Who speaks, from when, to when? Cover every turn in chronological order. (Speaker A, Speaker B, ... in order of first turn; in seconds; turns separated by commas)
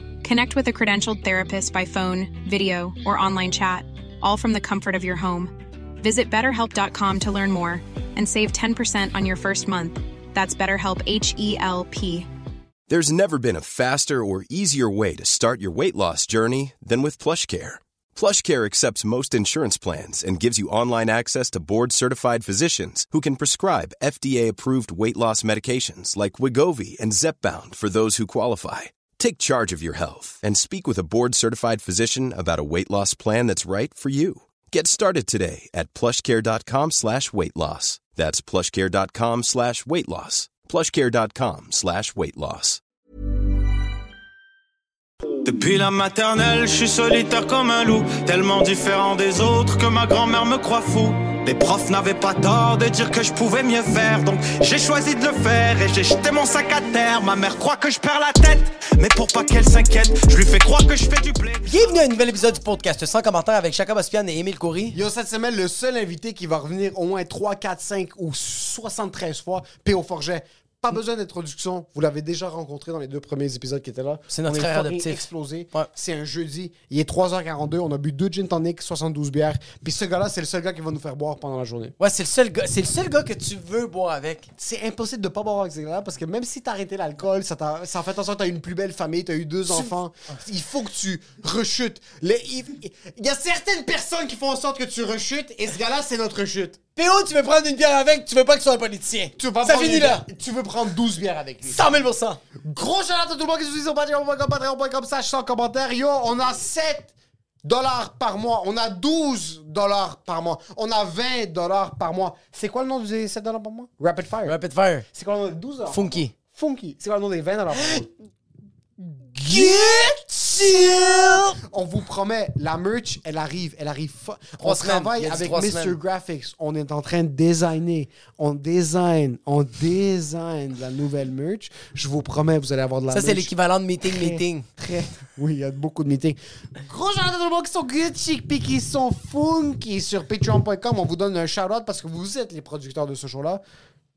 Speaker A: 0.2-12.3, Speaker B: 12.9-42.8, Speaker C: 45.4-61.7, Speaker D: 61.6-65.0, Speaker E: 64.9-81.9, Speaker D: 74.3-75.9, Speaker D: 82.0-84.5, Speaker E: 84.6-96.8, Speaker D: 97.0-100.2, Speaker E: 99.4-101.8, Speaker D: 101.6-102.4, Speaker E: 102.6-107.1, Speaker E: 107.6-114.6, Speaker D: 114.5-115.0, Speaker E: 115.1-118.1, Speaker D: 115.9-116.3, Speaker D: 117.8-118.0, Speaker E: 119.0-120.1, Speaker D: 119.4-121.6, Speaker E: 120.6-143.6, Speaker D: 124.6-126.0, Speaker D: 133.1-134.7